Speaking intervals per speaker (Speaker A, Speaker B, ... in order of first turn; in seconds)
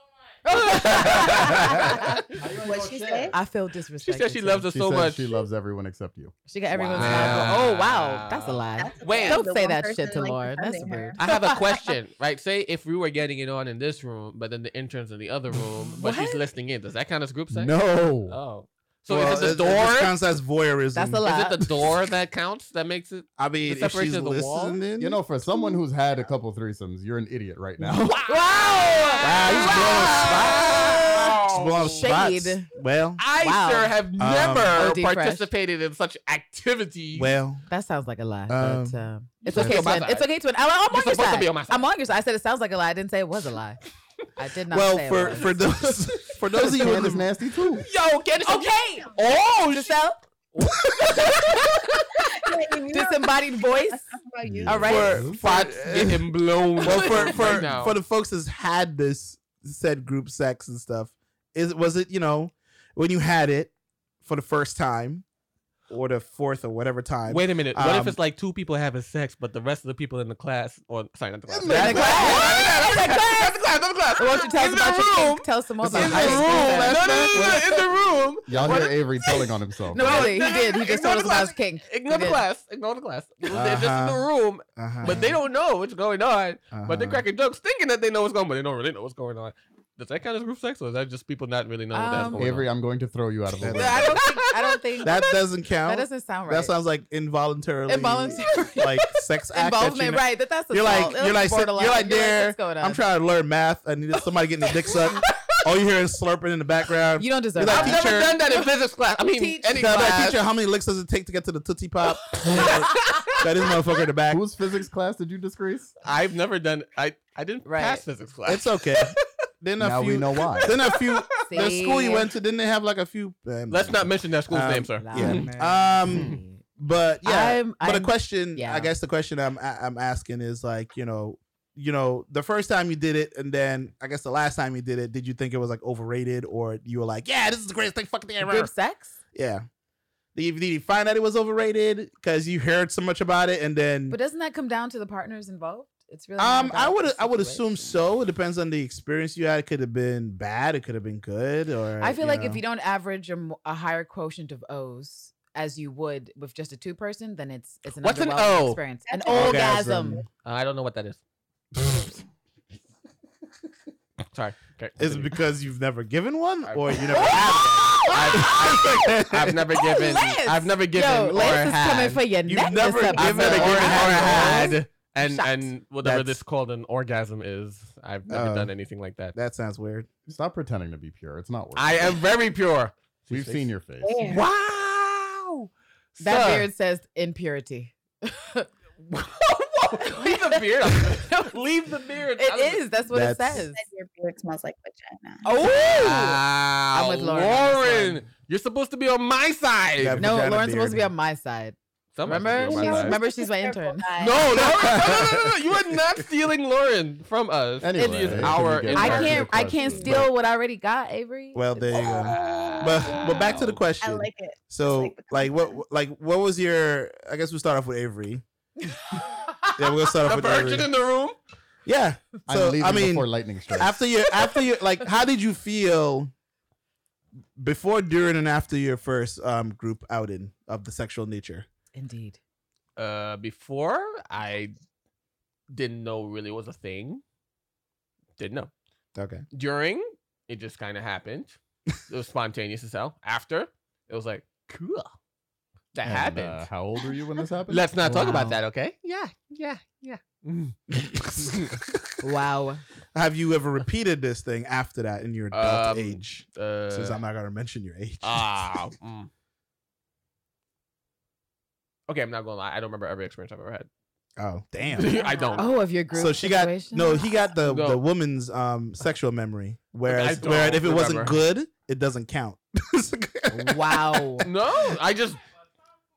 Speaker A: 0.5-2.1, 4.0-5.4, 7.0-9.4, 11.2-17.8, 18.3-20.1, 21.3-24.8, 28.0-32.0, 33.2-37.3, 39.4-40.3, 40.9-41.8, 47.8-50.0, 50.5-52.1, 55.4-58.0, 67.3-92.7, 94.2-94.6, 105.3-105.6, 107.6-110.4, 112.4-113.4, 116.0-119.2, 120.5-121.3, 123.7-125.5, 158.0-158.8, 160.4-161.2, 164.3-165.3, 166.7-172.2, 173.1-179.3, 181.8-183.7, 184.2-186.7, 189.1-192.8, 195.6-200.2, 202.2-203.2, 204.2-209.6, 211.9-213.6, 220.2-221.4, 233.0-234.7, 235.7-237.2, 238.4-238.7, 239.5-245.1, 245.9-246.7, 247.7-250.8, 251.5-251.8, 255.5-257.2, 258.2-259.3, 262.1-263.9, 264.9-265.7, 267.6-268.0, 270.1-271.4, 274.4-275.4
Speaker B: 0.5-2.2, 3.3-4.7, 6.5-11.6, 16.0-16.4, 20.9-21.6, 28.3-31.3, 31.8-32.7, 33.4-34.0, 34.7-35.5, 37.7-43.8, 44.4-46.0, 48.4-49.1, 49.7-50.2, 51.1-51.7, 52.9-54.1, 54.7-55.3, 56.8-57.5, 71.7-73.6, 74.2-77.2, 79.9-82.4, 91.9-92.5, 93.7-95.3, 95.8-96.8, 97.9-103.0, 107.2-108.7, 109.2-110.0, 117.7-118.0, 121.5-122.3, 125.0-126.6, 127.2-128.9, 138.4-139.2, 144.1-147.9, 152.0-160.2, 167.3-168.6, 169.7-175.7, 186.2-188.7, 190.0-191.5, 192.4-193.8, 195.4-196.4, 196.9-198.2, 200.2-204.1, 208.0-211.9, 231.9-232.4, 248.1-248.6, 252.2-252.8, 265.6-267.3, 273.5-274.5
Speaker C: 1.6-3.4, 4.7-7.6, 17.5-18.4, 25.0-28.2, 46.7-47.9, 54.5-55.4, 71.5-72.7, 78.5-80.4, 92.3-94.2, 114.3-116.0, 119.8-120.8, 180.3-182.2, 183.3-184.2, 207.8-210.2, 222.5-224.1, 246.1-248.5
Speaker D: 2.5-3.4, 8.8-11.2, 52.3-55.3, 159.1-159.7, 184.0-184.5, 193.7-195.4, 202.5-204.7, 212.1-215.8, 265.1-265.7
Speaker E: 19.1-21.9, 23.4-25.2, 29.2-33.2, 34.2-34.8, 37.1-37.6, 38.5-39.0, 44.7-47.3, 50.9-51.1, 54.8-65.2, 65.9-68.2, 71.7-72.6, 75.8-77.8, 83.5-85.4, 86.7-87.2, 93.6-94.2, 95.0-108.4, 109.7-114.4, 118.5-138.7, 139.3-139.7, 140.3-144.2, 146.4-152.6, 159.3-160.3, 165.0-169.7, 172.5-174.8, 176.0-176.4, 178.3-178.7, 179.3-180.1, 193.1-193.7, 200.0-201.1, 204.6-205.5, 211.6-218.4, 219.8-220.9, 221.9-226.3, 227.6-231.7, 239.2-239.4, 250.9-252.0, 253.1-258.7, 264.4-265.2, 266.1-274.5